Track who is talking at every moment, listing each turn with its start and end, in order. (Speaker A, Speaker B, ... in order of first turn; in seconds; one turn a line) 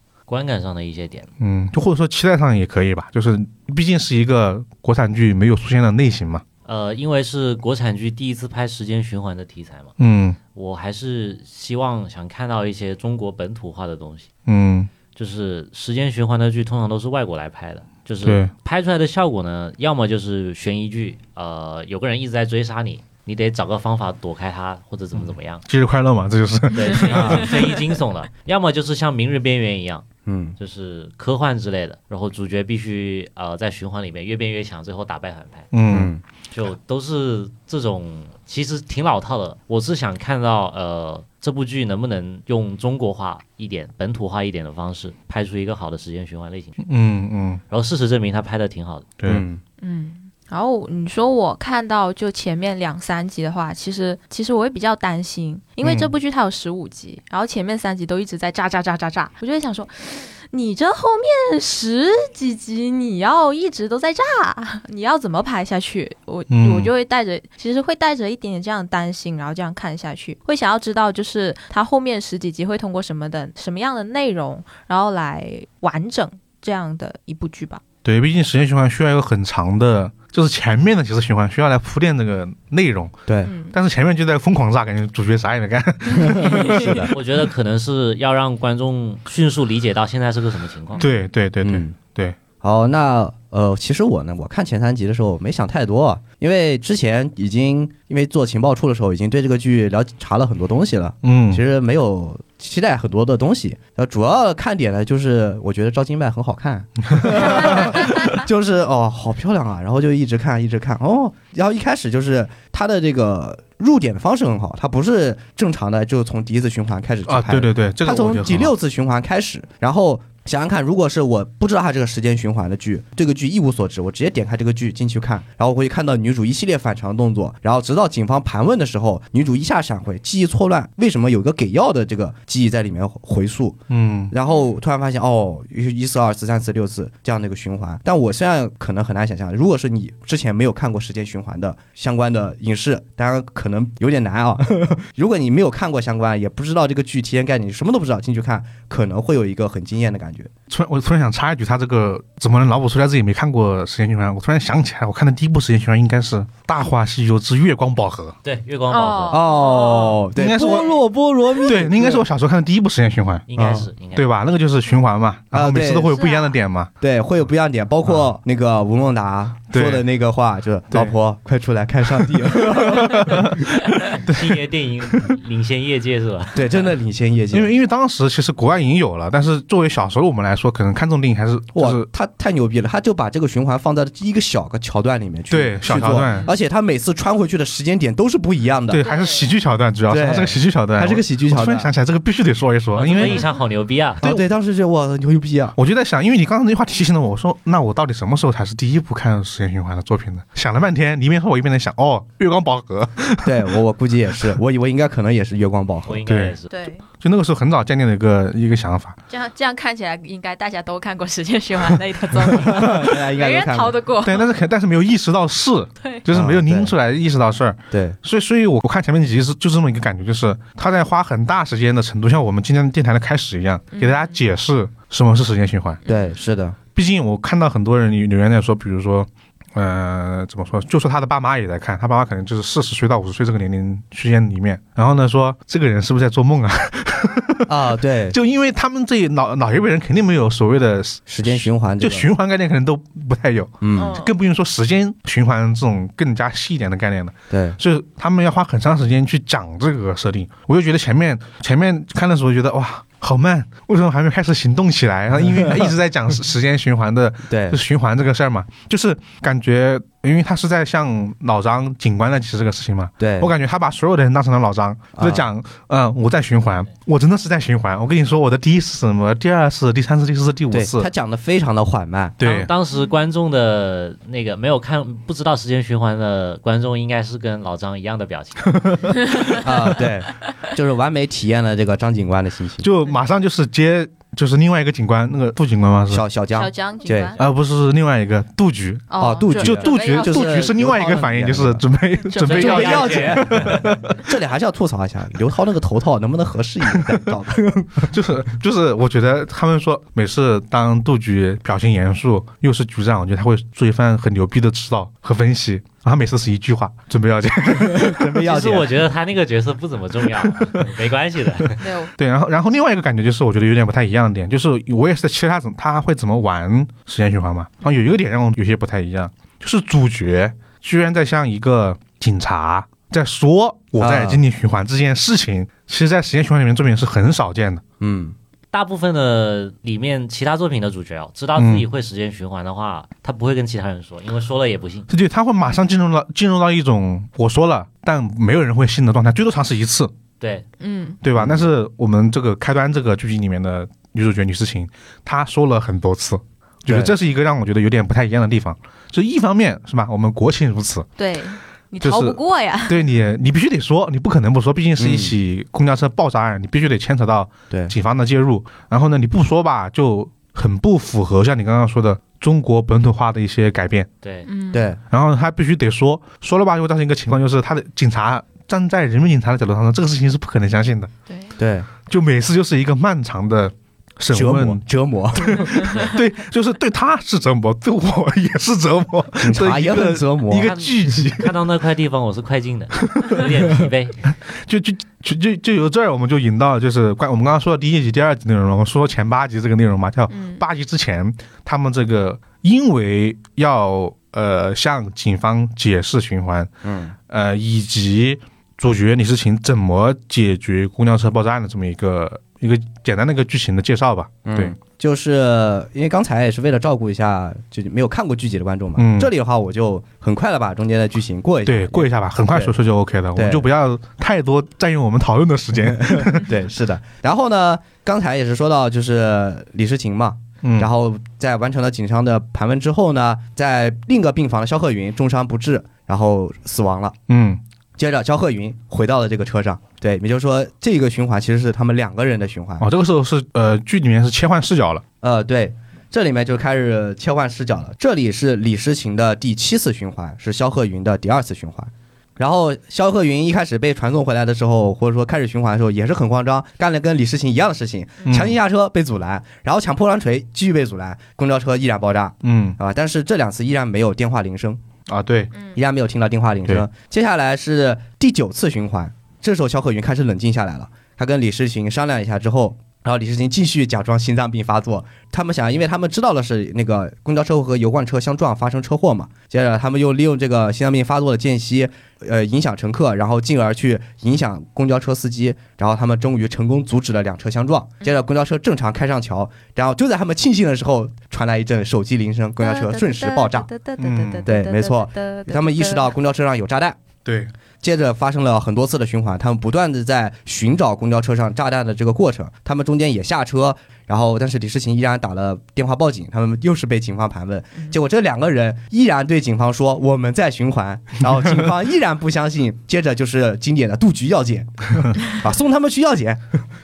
Speaker A: 0.3-1.3
Speaker B: 1.4-6.4
Speaker A: 6.7-9.9
Speaker B: 10.0-10.4
Speaker A: 10.5-14.3
Speaker B: 14.5-14.9
Speaker A: 15.1-25.6
Speaker B: 18.2-18.5
Speaker B: 25.6-27.6
Speaker A: 26.7-30.1
Speaker C: 26.9-27.7
Speaker D: 27.1-27.4
Speaker D: 30.3-30.6
Speaker A: 30.6-35.7
Speaker B: 35.7-36.1
Speaker D: 35.9-36.2
Speaker A: 36.5-46.8
Speaker B: 46.8-47.6
Speaker A: 47.7-49.1
Speaker B: 49.2-49.5
Speaker D: 49.3-49.6
Speaker C: 49.8-77.8
Speaker B: 55.8-56.1
Speaker B: 66.5-66.9
Speaker B: 78.0-83.2
Speaker D: 83.3-83.5
Speaker C: 83.4-83.8
Speaker B: 83.7-87.2
Speaker C: 86.2-87.0
Speaker D: 86.7-87.0
Speaker A: 87.0-91.0
Speaker B: 91.0-92.4
Speaker D: 91.6-91.9
Speaker D: 92.6-150.5
Speaker B: 101.2-101.6
Speaker B: 107.1-108.2
Speaker B: 117.3-118.7
Speaker B: 133.9-134.3
Speaker B: 150.7-158.4
Speaker A: 158.4-159.5
Speaker C: 158.9-161.0
Speaker D: 159.3-162.3
Speaker B: 160.4-161.0
Speaker B: 161.6-163.5
Speaker A: 163.5-164.3
Speaker D: 163.6-163.9
Speaker B: 164.1-166.9
Speaker D: 165.5-166.2
Speaker C: 166.1-166.6
Speaker D: 167.0-173.7
Speaker B: 168.1-168.3
Speaker B: 169.7-170.1
Speaker B: 172.1-174.6
Speaker A: 174.1-176.8
Speaker D: 176.5-177.7
Speaker B: 177.5-182.1
Speaker D: 181.7-189.0
Speaker B: 185.5-186.5
Speaker C: 186.3-186.6
Speaker B: 188.9-193.4
Speaker C: 189.0-189.5
Speaker D: 190.1-191.9
Speaker A: 192.9-194.3
Speaker D: 194.2-195.8
Speaker B: 195.8-203.8
Speaker D: 203.4-206.2
Speaker A: 206.1-206.7
Speaker B: 206.3-206.6
Speaker C: 206.7-207.1
Speaker B: 207.2-209.2
Speaker C: 209.3-214.5
Speaker D: 212.5-214.0
Speaker B: 214.2-226.0
Speaker D: 216.3-216.9
Speaker D: 217.9-218.2
Speaker C: 223.9-224.3
Speaker C: 226.1-226.3
Speaker D: 226.1-226.8
Speaker B: 226.9-271.1
Speaker D: 237.7-238.4
Speaker D: 241.3-242.3
Speaker D: 243.8-244.2
Speaker C: 244.0-244.3
Speaker D: 247.5-247.8
Speaker D: 257.5-257.8
Speaker D: 263.2-263.5
Speaker D: 265.2-265.5
Speaker D: 270.7-272.4
Speaker B: 272.4-272.7
Speaker A: 272.4-279.1
Speaker C: 279.2-279.6
Speaker D: 279.5-282.9
Speaker B: 282.8-286.2
Speaker D: 286.1-287.4
Speaker C: 286.5-287.4
Speaker B: 287.4-294.2
Speaker C: 289.1-290.7
Speaker D: 289.2-291.8
Speaker C: 292.3-293.3
Speaker A: 292.4-293.9
Speaker D: 292.4-298.1
Speaker B: 298.0-308.4
Speaker D: 307.8-308.9
Speaker A: 308.4-311.8
Speaker C: 311.8-312.1
Speaker B: 312.2-327.8
Speaker D: 324.0-324.4
Speaker D: 328.0-328.4
Speaker A: 328.7-335.1
Speaker B: 331.6-331.9
Speaker B: 335.1-340.1
Speaker A: 340.4-340.7
Speaker C: 340.8-341.2
Speaker B: 341.2-351.1
Speaker D: 341.4-341.7
Speaker D: 346.9-347.1
Speaker C: 351.2-353.0
Speaker B: 352.0-364.1
Speaker D: 355.0-355.4
Speaker A: 364.2-364.5
Speaker C: 364.5-364.9
Speaker D: 364.7-365.0
Speaker B: 365.1-371.1
Speaker C: 371.3-371.6
Speaker D: 371.6-371.9
Speaker B: 372.1-374.8
Speaker D: 374.3-375.7
Speaker B: 375.4-381.5
Speaker C: 375.6-376.0
Speaker D: 379.4-380.7
Speaker A: 380.6-384.2
Speaker B: 383.0-383.5
Speaker B: 384.3-396.7
Speaker C: 390.3-390.6
Speaker D: 396.8-397.1
Speaker B: 397.3-404.7
Speaker D: 404.4-412.7
Speaker B: 409.0-409.3
Speaker B: 411.7-416.5
Speaker D: 413.4-413.7
Speaker D: 416.1-427.2
Speaker B: 420.6-420.9
Speaker B: 427.3-427.6
Speaker D: 428.0-432.9
Speaker B: 432.8-435.0
Speaker D: 435.2-454.8
Speaker B: 448.3-448.6
Speaker B: 452.4-452.8
Speaker B: 455.1-455.5
Speaker D: 455.7-483.7
Speaker C: 482.6-486.1
Speaker B: 484.0-484.5
Speaker D: 484.5-487.0
Speaker B: 487.2-487.5
Speaker D: 487.8-506.4